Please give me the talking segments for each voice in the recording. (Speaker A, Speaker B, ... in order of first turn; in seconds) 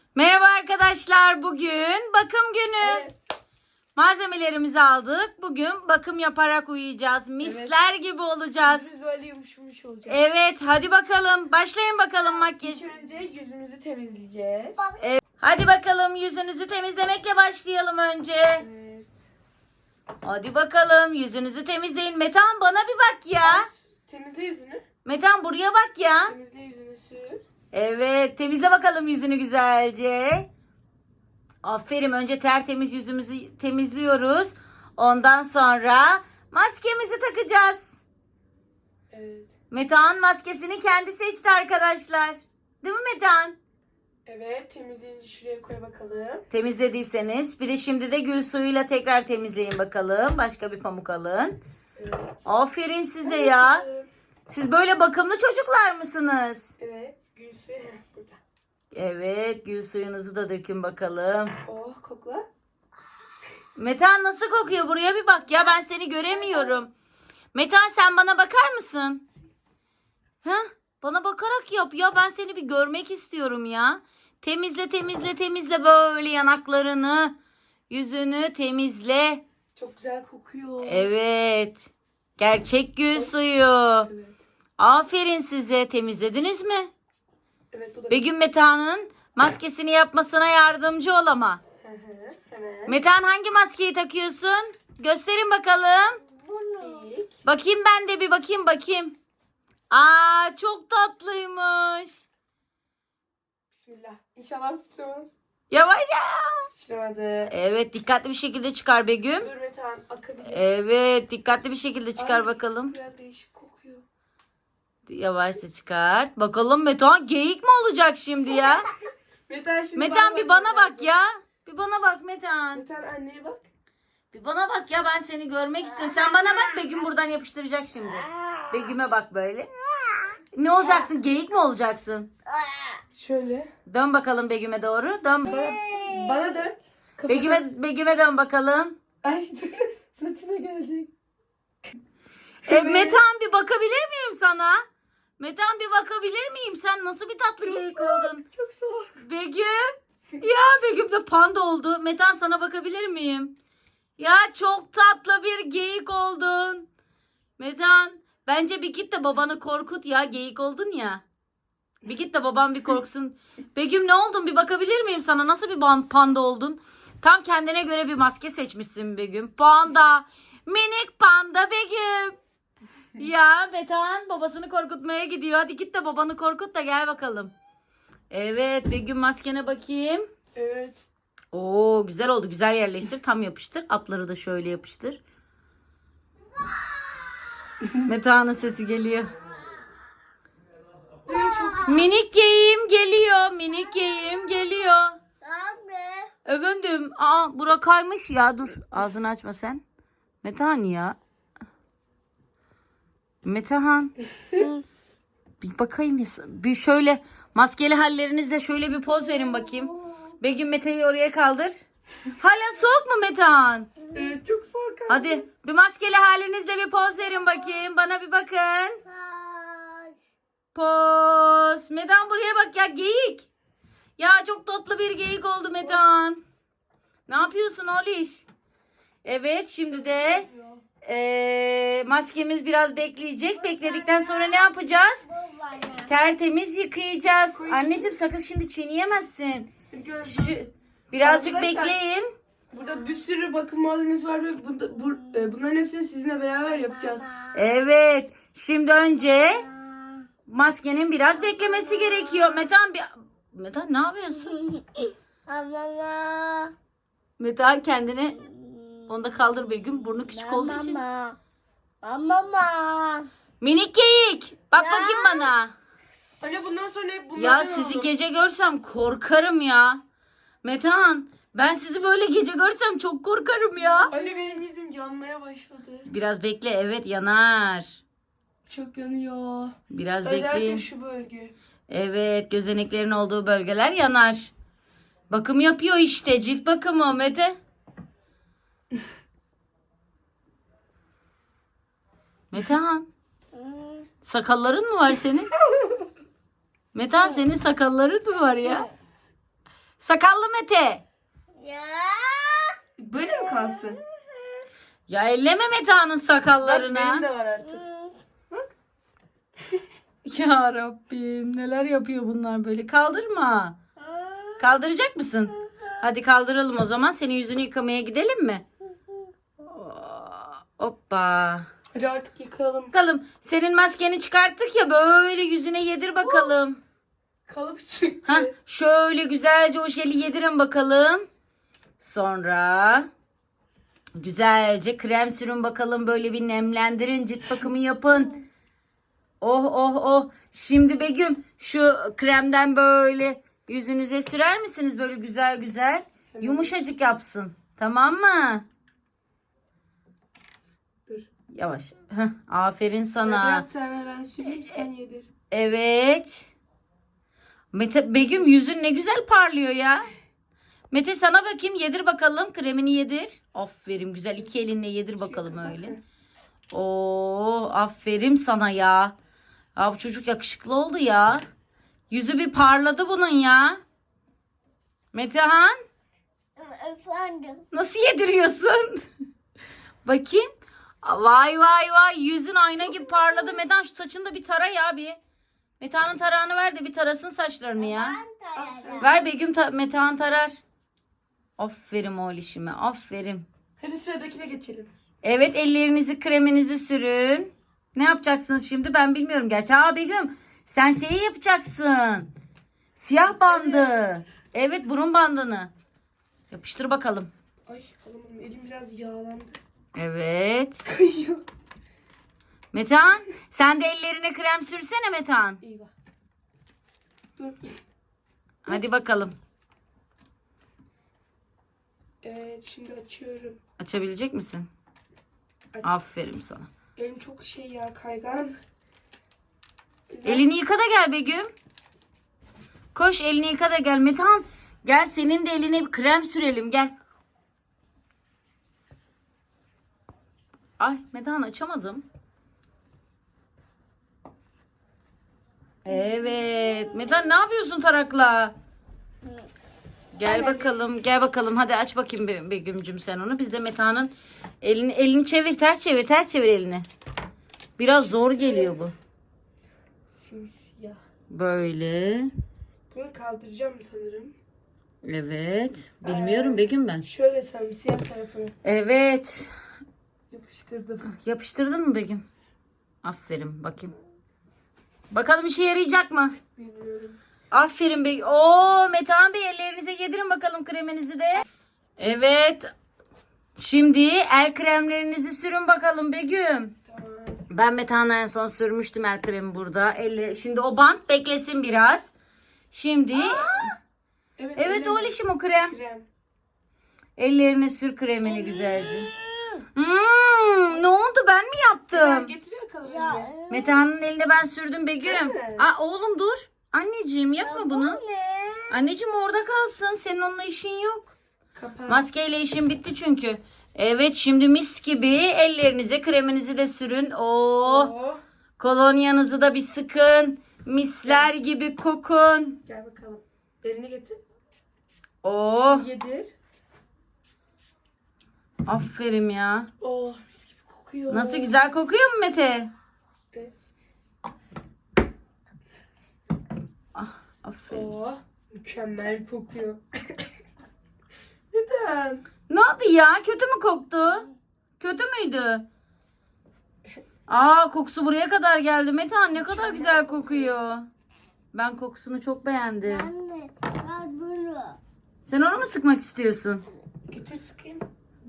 Speaker A: 0.1-3.1, 4.0-8.8, 10.1-12.9, 15.0-18.6, 20.2-23.7, 25.1-26.3, 27.7-30.5, 31.6-38.0, 39.7-43.6, 46.5-51.6, 52.5-53.9, 54.5-56.7, 58.9-61.6, 63.8-66.9, 67.5-69.2, 70.4-77.3, 77.9-79.4, 80.8-81.8, 82.4-84.1, 84.8-86.9, 88.1-91.6, 92.9-96.2, 97.5-99.2, 99.9-102.2, 105.7-106.7, 107.5-109.5, 110.4-112.9, 115.1-118.9, 120.0-122.8, 124.3-129.7, 130.5-132.3, 133.9-135.6, 137.3-139.0, 142.7-144.8, 145.4-148.4, 149.2-153.5, 154.2-156.9, 157.6-161.2, 162.1-172.4, 173.2-177.5, 178.3-180.3, 181.5-185.2, 188.1-189.3, 191.9-195.2, 196.4-199.8, 200.4-201.2, 203.4-204.1, 205.6-211.8, 212.4-213.9, 215.1-219.0, 220.7-223.5, 224.2-226.4, 227.3-228.4, 229.2-230.5, 231.0-235.3, 236.1-239.7, 240.2-242.3, 247.5-249.7, 250.5-254.6, 257.4-258.4, 259.1-261.0, 263.6-265.7, 267.4-270.0, 270.6-274.1, 276.1-278.0, 279.9-280.8, 281.9-284.5, 285.3-287.6, 292.5-293.1, 294.2-295.5, 296.9-298.9, 300.0-301.0, 305.1-307.2, 310.2-313.8, 314.6-318.6, 319.6-321.7, 322.9-326.8, 328.3-331.3, 332.0-333.1, 334.2-338.4, 339.4-348.6, 351.5-353.6, 354.5-354.8, 355.5-356.5, 357.7-360.1, 360.9-365.9, 366.7-369.1, 369.8-371.5, 372.1-373.8, 375.1-375.8, 377.7-379.1, 380.0-380.5, 381.0-385.2, 385.8-388.2, 389.0-390.6, 391.6-393.5, 395.2-402.3, 403.0-405.7, 406.5-407.3, 409.9-410.8, 412.7-415.6, 418.7-419.4, 423.8-424.7, 425.8-426.7, 430.2-431.5, 432.9-436.9, 440.8-442.1, 445.9-448.6, 450.1-456.9, 457.8-458.9, 461.3-462.3, 465.0-467.1, 468.6-469.5, 471.1-472.2, 473.0-473.9, 475.1-476.4, 477.5-481.4, 482.0-482.7, 483.6-486.7, 487.5-492.1, 492.7-493.7, 494.6-495.7, 497.2-499.1, 499.8-502.3, 503.5-508.0, 508.7-511.1, 511.9-517.9, 518.6-522.6, 525.2-525.9, 528.6-529.7, 531.1-532.7, 537.0-538.0, 542.5-544.3, 544.8-545.6, 547.3-550.9, 551.5-553.1, 555.2-556.6
Speaker B: 2.8-3.2, 7.4-7.7, 8.6-10.2, 12.6-14.8, 18.6-19.2, 23.4-24.8, 26.2-27.5, 39.1-39.5, 44.2-46.5, 52.0-52.5, 53.2-54.1, 56.8-58.4, 61.7-62.5, 79.8-81.1, 84.1-84.4, 87.7-88.3, 91.8-93.0, 96.8-97.4, 103.7-105.3, 106.7-107.5, 109.4-110.7, 112.2-114.0, 119.5-121.1, 122.7-123.7, 133.1-133.7, 135.5-137.7, 139.2-141.1, 142.7-143.2, 147.6-149.2, 180.6-181.0, 191.3-192.1, 214.1-215.4, 229.8-230.8, 237.5-238.2, 239.9-242.0, 242.7-247.3, 266.4-268.1, 274.1-276.1, 278.7-281.6, 303.0-304.0, 306.6-307.9, 321.9-322.9, 326.2-326.6, 327.5-328.5, 346.3-346.7, 353.2-355.3, 365.2-366.0, 388.6-389.3, 393.8-394.9, 403.4-404.2, 407.7-409.6, 410.9-411.4, 415.6-415.9, 417.4-417.7, 422.2-423.6, 425.8-426.0, 427.0-428.6, 430.1-430.5, 450.2-450.8, 458.0-458.8, 460.1-461.0, 462.9-464.4, 466.0-468.6, 470.3-471.1, 476.6-477.2, 486.9-487.4, 494.4-496.1, 501.9-503.4, 505.0-505.7, 511.6-512.1, 517.6-518.2, 521.0-521.3, 522.7-524.2, 525.6-526.3, 529.8-531.6, 533.3-533.7, 537.7-540.3, 541.5-542.2, 549.3-550.6, 557.1-557.9
Speaker C: 96.3-97.1, 126.0-126.9, 128.1-128.9, 132.6-133.0, 135.5-136.5, 191.3-192.0, 195.4-196.3, 204.6-204.8, 219.1-220.2, 233.6-234.7, 235.2-236.1, 247.1-247.5, 249.8-250.1, 255.5-256.7, 258.4-259.1, 260.3-261.4, 262.0-263.3, 264.8-265.5, 293.6-294.1, 301.6-302.8, 314.0-314.6, 376.6-377.6, 382.9-383.6, 387.8-389.1, 493.2-493.7, 498.2-499.6, 502.9-503.8, 507.4-508.8, 552.8-554.8